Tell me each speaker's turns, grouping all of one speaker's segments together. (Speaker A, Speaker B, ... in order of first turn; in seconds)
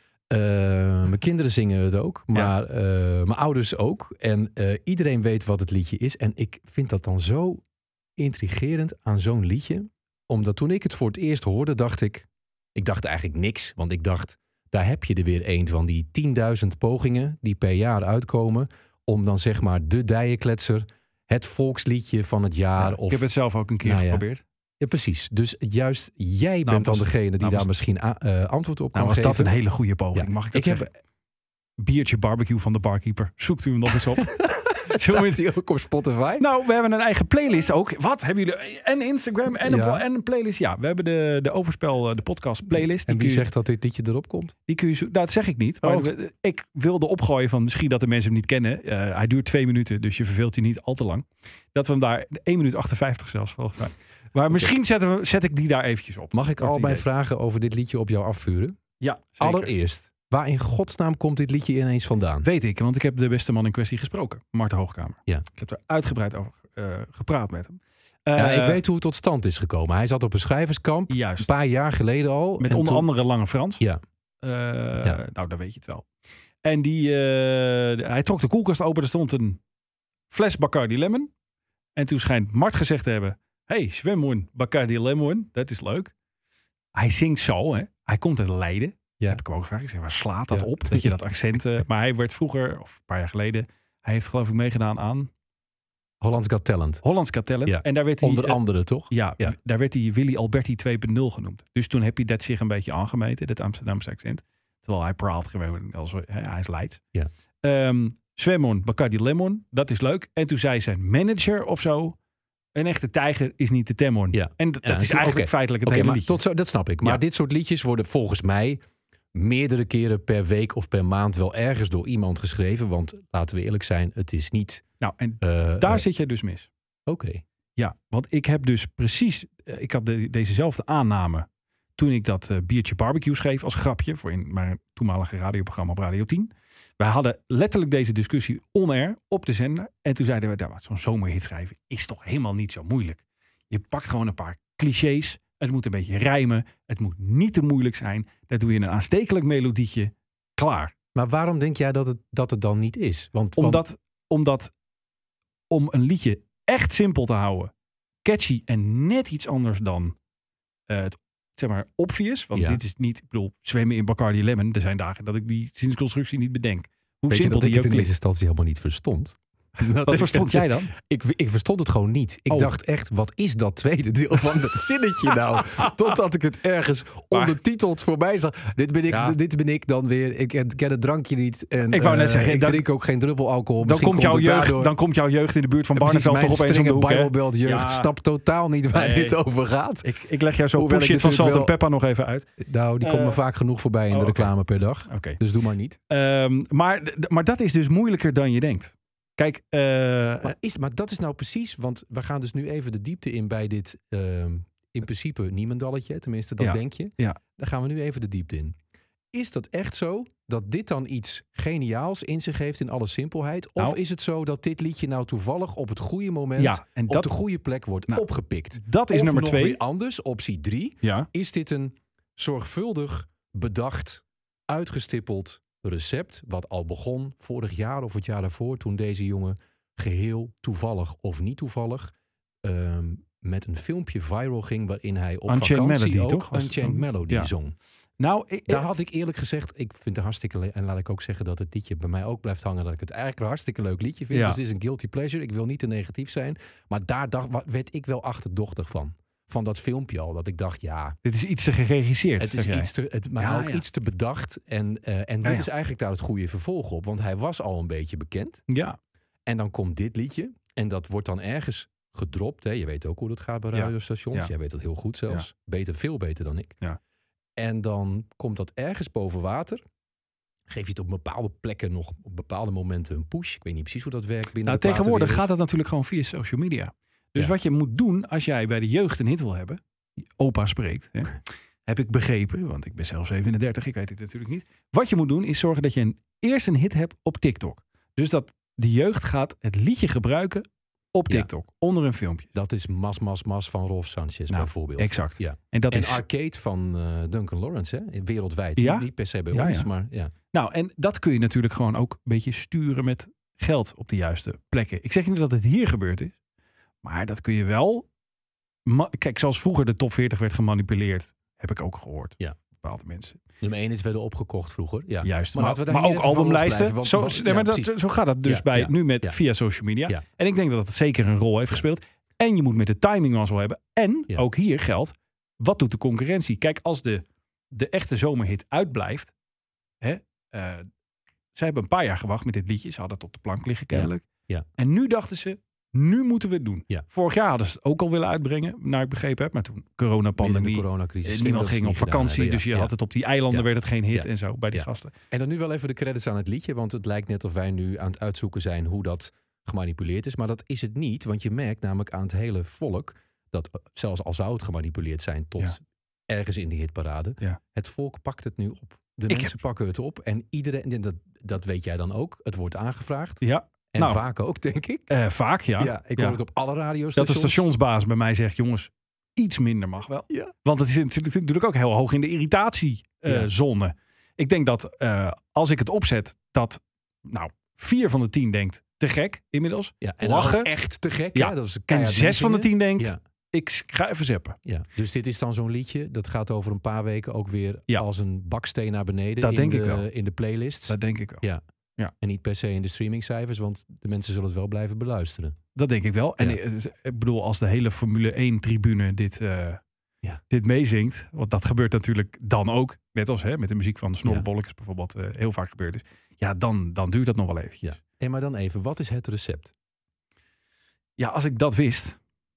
Speaker A: 0.3-7.6, 8.2-23.3, 23.8-24.2, 24.8-29.5, 30.1-30.9, 34.2-36.4, 39.5-40.0, 43.1-44.5, 45.8-46.1, 56.3-58.8, 59.4-62.5, 68.4-73.1, 90.5-91.1, 96.2-97.0, 97.7-99.5, 114.3-118.8, 119.3-124.8, 125.4-126.0, 127.1-127.4, 151.1-153.8, 162.5-162.8, 167.3-184.9, 185.9-190.1, 190.8-191.8, 192.6-196.0, 200.4-208.8, 209.3-232.1, 232.6-237.8, 238.7-251.2, 252.4-258.6, 259.5-266.8, 267.6-269.8, 270.7-275.5, 292.6-300.3, 313.6-317.9, 318.4-319.4, 333.9-334.6, 340.4-342.9, 343.5-363.4, 363.9-365.1, 365.8-367.6, 380.0-383.2, 384.6-391.6, 392.2-395.6, 407.8-409.7
Speaker B: 22.8-24.4, 26.6-27.7, 28.9-30.9, 31.8-35.4, 36.4-43.5, 44.7-57.0, 59.0-59.7, 62.4-68.8, 71.1-71.5, 72.6-73.8, 74.4-76.1, 76.6-79.6, 80.3-81.3, 82.0-86.1, 86.9-95.3, 97.0-107.0, 107.6-112.2, 112.8-116.4, 125.0-126.7, 127.8-150.9, 153.6-154.7, 155.7-157.7, 158.2-160.2, 160.9-168.1, 170.0-170.9, 179.1-179.4, 181.9-182.9, 183.8-188.1, 188.9-189.4, 190.0-192.5, 193.0-193.4, 194.1-194.5, 195.1-195.4, 196.1-200.6, 206.6-207.4, 216.6-217.3, 218.8-219.8, 221.0-221.3, 235.5-237.5, 238.2-238.8, 244.3-244.6, 251.2-253.8, 258.7-259.0, 263.7-264.5, 274.6-279.8, 280.4-292.5, 294.5-296.2, 298.8-299.9, 300.5-306.4, 307.0-308.1, 308.9-313.4, 315.2-329.3, 330.0-330.9, 331.6-334.3, 334.8-345.1, 359.3-359.6, 363.4-364.2, 365.1-366.4, 367.1-380.7, 381.4-384.6, 389.4-390.1, 390.9-391.4, 395.8-399.8, 400.5-407.9, 411.2-412.2